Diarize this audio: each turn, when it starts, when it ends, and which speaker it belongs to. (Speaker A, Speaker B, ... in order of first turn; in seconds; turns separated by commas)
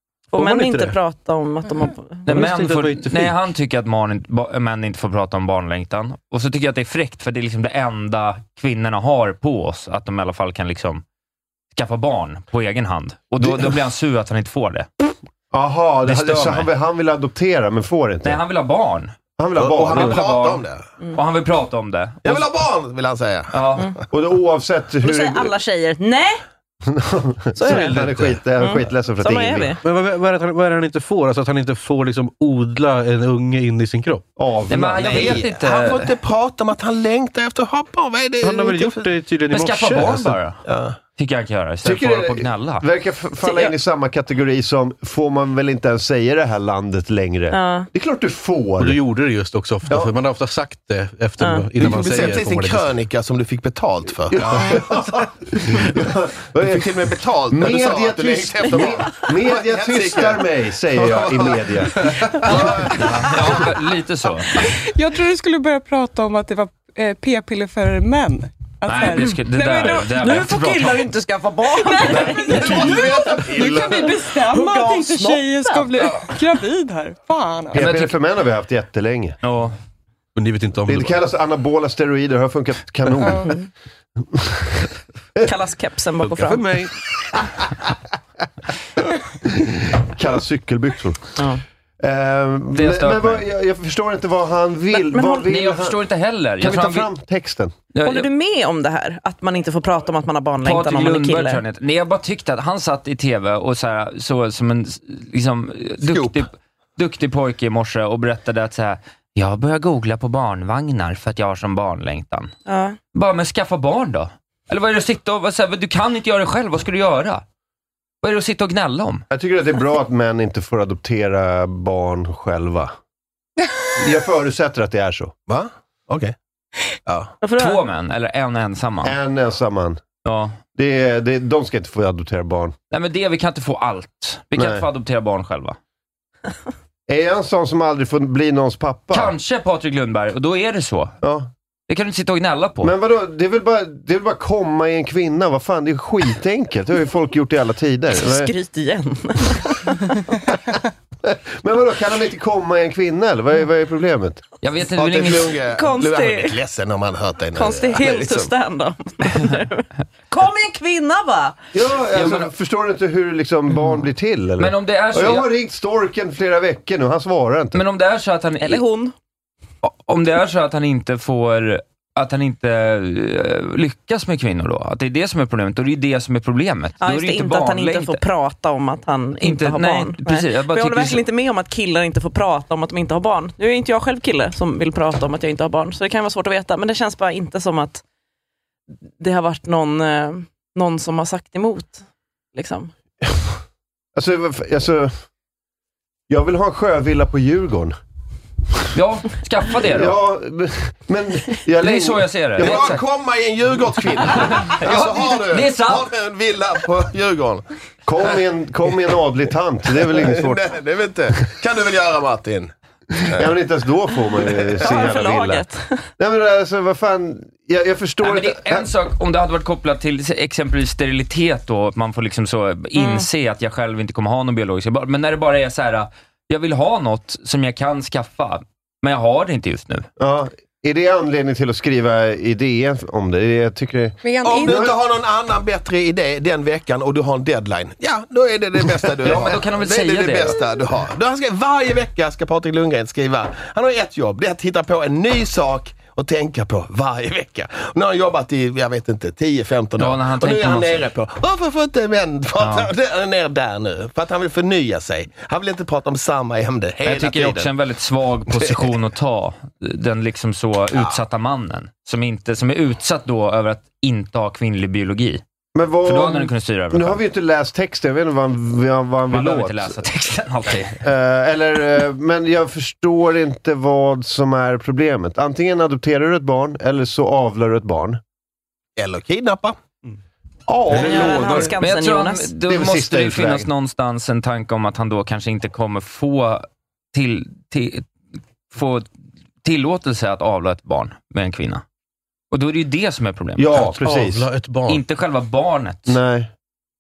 Speaker A: 0.3-2.3, Speaker B: 0.3-0.9, Speaker C: 2.3-11.0, Speaker B: 2.3-3.4, Speaker C: 11.7-14.9, Speaker D: 13.4-13.8, Speaker D: 15.5-18.4, Speaker C: 16.1-16.7, Speaker C: 18.2-19.2, Speaker D: 19.4-20.2, Speaker E: 19.6-20.8, Speaker C: 19.9-22.5, Speaker E: 22.2-23.8, Speaker C: 23.5-23.9, Speaker D: 24.1-25.5, Speaker A: 25.0-26.4, Speaker D: 26.9-29.7, Speaker A: 27.6-28.1, Speaker C: 27.7-28.0, Speaker B: 27.8-28.3, Speaker A: 28.6-29.8, Speaker B: 29.8-34.3, Speaker D: 34.4-35.4, Speaker C: 34.7-36.1, Speaker E: 35.0-39.1, Speaker B: 38.4-40.4, Speaker C: 39.5-40.6, Speaker E: 40.6-41.0, Speaker C: 41.2-42.9, Speaker D: 41.8-49.0, Speaker A: 43.4-43.8, Speaker A: 47.5-47.9, Speaker B: 48.8-52.9, Speaker A: 51.4-51.7, Speaker E: 51.8-55.0, Speaker D: 54.4-63.6, Speaker E: 56.6-63.3, Speaker C: 62.9-64.8, Speaker F: 64.8-70.2, Speaker C: 68.9-71.1, Speaker A: 69.0-73.5, Speaker C: 72.0-73.1, Speaker F: 72.3-77.9, Speaker E: 72.6-74.3, Speaker A: 74.4-76.1, Speaker D: 77.7-79.4, Speaker C: 77.8-78.1, Speaker C: 79.4-79.8, Speaker B: 80.3-81.2, Speaker D: 80.9-83.5, Speaker F: 83.2-83.5, Speaker A: 83.4-83.7, Speaker D: 84.2-84.9, Speaker A: 85.5-86.6, Speaker B: 86.3-87.0, Speaker D: 89.5-91.4, Speaker D: 92.0-96.0, Speaker C: 92.8-93.5, Speaker A: 94.9-95.5, Speaker C: 95.5-97.1, Speaker D: 96.6-97.8, Speaker C: 97.9-98.3, Speaker A: 98.0-101.6, Speaker C: 100.6-112.5, Speaker A: 112.7-113.0, Speaker C: 113.1-117.4, Speaker C: 118.2-119.2, Speaker D: 119.3-122.9, Speaker D: 124.0-125.3, Speaker E: 125.5-126.3, Speaker E: 127.1-127.3, Speaker A: 127.4-127.8, Speaker C: 127.6-129.2, Speaker D: 129.0-130.0, Speaker C: 130.2-130.6, Speaker D: 130.8-132.8, Speaker C: 132.9-135.8, Speaker D: 134.6-134.8, Speaker D: 137.1-139.3, Speaker C: 139.1-141.2, Speaker D: 141.2-141.5, Speaker C: 141.9-142.9, Speaker D: 142.8-148.5, Speaker A: 148.1-150.3, Speaker D: 151.2-154.4, Speaker C: 154.6-155.6, Speaker E: 155.0-158.5, Speaker A: 155.7-156.6, Speaker A: 157.6-161.6, Speaker D: 161.7-167.8, Speaker C: 162.1-162.5, Speaker C: 164.6-165.5, Speaker C: 167.7-168.8, Speaker A: 168.6-169.2, Speaker C: 169.8-178.2, Speaker A: 177.0-188.0, Speaker C: 179.4-181.2, Speaker A: 189.2-192.9, Speaker D: 194.2-195.1, Speaker D: 196.3-197.9, Speaker C: 198.9-200.2, Speaker D: 199.9-203.0, Speaker C: 201.8-203.0, Speaker E: 202.6-207.7, Speaker C: 204.6-206.1, Speaker D: 208.1-210.7, Speaker E: 209.9-213.5, Speaker D: 213.3-215.7, Speaker A: 214.8-216.0, Speaker D: 216.2-218.9, Speaker C: 218.2-230.1, Speaker A: 223.0-223.3, Speaker D: 230.2-235.0, Speaker F: 234.2-234.9, Speaker E: 234.4-257.7, Speaker C: 239.2-240.6, Speaker C: 250.0-251.1, Speaker C: 252.6-252.9, Speaker C: 257.0-265.4, Speaker E: 258.5-258.8, Speaker E: 260.9-261.2, Speaker D: 265.8-270.0, Speaker C: 266.1-267.2, Speaker C: 269.3-271.0, Speaker D: 271.0-278.2, Speaker E: 279.0-279.8, Speaker D: 280.7-281.7, Speaker A: 280.9-282.5, Speaker C: 281.4-288.1, Speaker D: 282.7-283.7, Speaker C: 288.7-289.1, Speaker C: 289.6-291.8, Speaker C: 292.5-293.9, Speaker D: 293.6-294.5, Speaker B: 294.0-295.0, Speaker C: 294.9-296.2, Speaker D: 296.1-296.5